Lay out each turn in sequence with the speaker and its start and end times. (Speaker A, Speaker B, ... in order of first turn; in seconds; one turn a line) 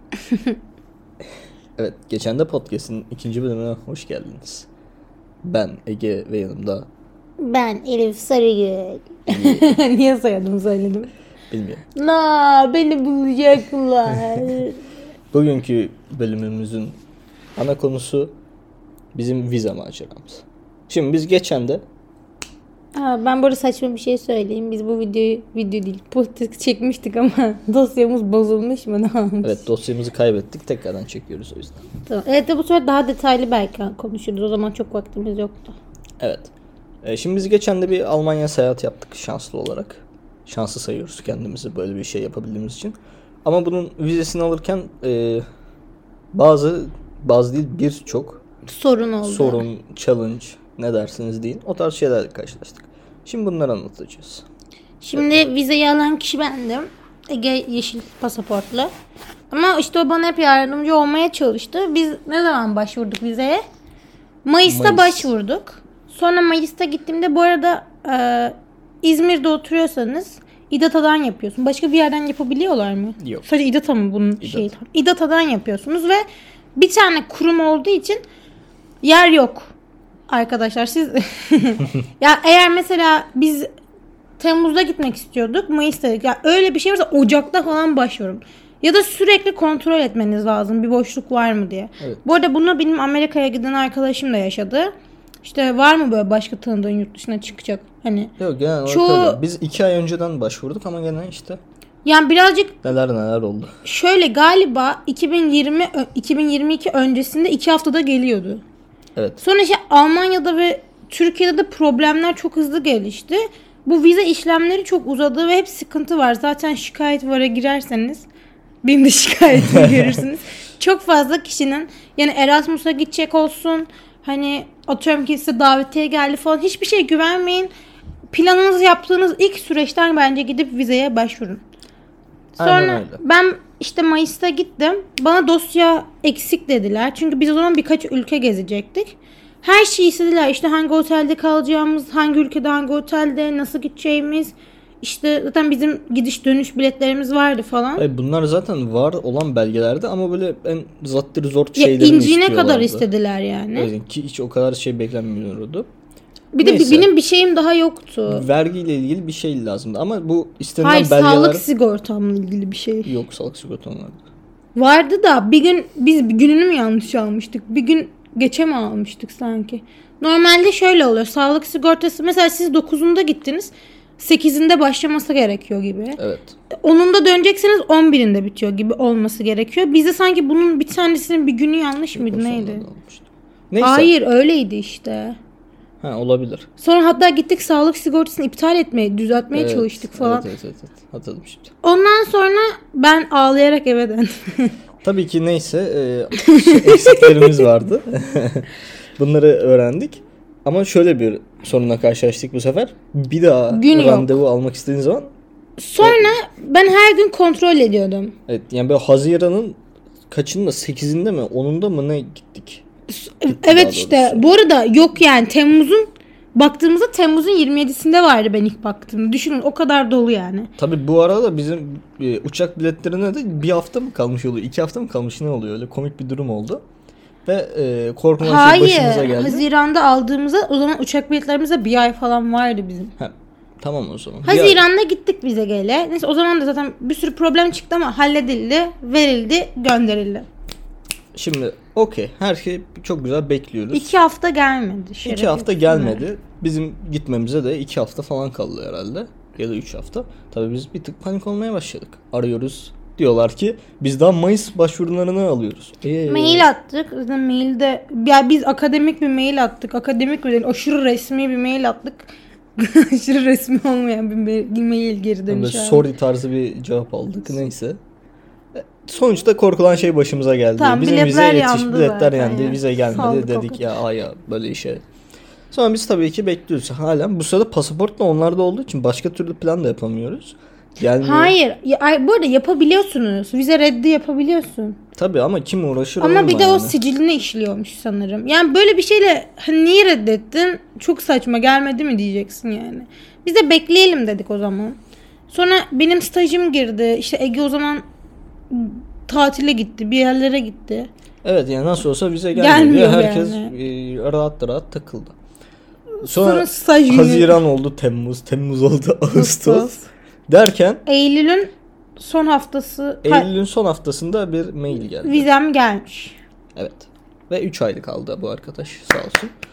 Speaker A: 1.8-4.7
Speaker A: 5.4-6.9
Speaker B: 7.4-11.1
Speaker A: 9.3-9.8
Speaker A: 11.5-11.8
Speaker B: 11.9-14.8
Speaker A: 15.3-17.0
Speaker A: 17.6-18.3
Speaker A: 19.1-21.8
Speaker B: 22.9-29.6
Speaker A: 29.4-31.8
Speaker B: 32.1-35.8
Speaker A: 36.2-36.5
Speaker A: 37.0-45.4
Speaker A: 46.3-48.4
Speaker B: 48.7-49.6
Speaker A: 49.2-54.5
Speaker B: 55.0-58.9
Speaker B: 59.5-63.6
Speaker B: 64.4-76.2
Speaker A: 64.7-65.3
Speaker A: 73.2-73.5
Speaker A: 74.4-74.7
Speaker B: 76.8-78.2
Speaker B: 79.0-79.7
Speaker B: 80.3-83.7
Speaker B: 84.4-94.9
Speaker B: 95.4-98.3
Speaker A: 98.4-101.6
Speaker B: 98.9-99.4
Speaker B: 102.0-102.8
Speaker A: 102.8-103.8
Speaker B: 103.8-108.6
Speaker B: 109.4-118.3
Speaker B: 118.8-127.7
Speaker B: 128.3-131.6
Speaker A: 132.6-133.2
Speaker B: 132.6-148.0
Speaker A: 148.0-153.1
Speaker B: 151.8-153.9
Speaker A: 153.8-155.9
Speaker B: 156.5-158.4
Speaker A: 156.6-157.1
Speaker A: 158.3-161.7
Speaker B: 160.8-163.1
Speaker A: 163.1-164.2
Speaker B: 164.8-176.2
Speaker A: 176.2-176.6
Speaker B: 176.8-182.9
Speaker A: 182.1-184.1
Speaker B: 183.8-185.4
Speaker A: 186.0-186.7
Speaker B: 186.8-190.5
Speaker A: 189.5-191.7
Speaker B: 191.8-194.8
Speaker A: 195.0-205.3
Speaker B: 196.4-197.7
Speaker B: 203.7-204.4
Speaker B: 205.8-208.3
Speaker A: 206.0-206.4
Speaker A: 208.5-209.8
Speaker A: 210.3-212.8
Speaker B: 213.1-220.7
Speaker A: 213.5-214.4
Speaker A: 220.8-226.8
Speaker A: 227.5-229.7
Speaker B: 228.4-233.2
Speaker A: 233.2-234.8
Speaker B: 234.4-240.5
Speaker A: 241.3-244.1
Speaker B: 243.9-246.2
Speaker A: 245.2-256.7
Speaker B: 256.2-266.1
Speaker A: 265.5-268.0
Speaker A: 268.8-275.0
Speaker B: 270.8-273.9
Speaker A: 275.7-281.6
Speaker B: 281.2-285.0
Speaker A: 285.2-287.0
Speaker B: 286.2-295.0
Speaker B: 295.5-298.0
Speaker B: 298.7-301.1
Speaker A: 301.4-305.4
Speaker B: 302.5-303.7
Speaker B: 306.2-307.6
Speaker A: 306.2-310.0
Speaker B: 309.4-310.1
Speaker A: 310.5-311.0
Speaker B: 311.1-313.5
Speaker A: 313.2-315.5
Speaker B: 315.2-316.4
Speaker A: 316.8-319.5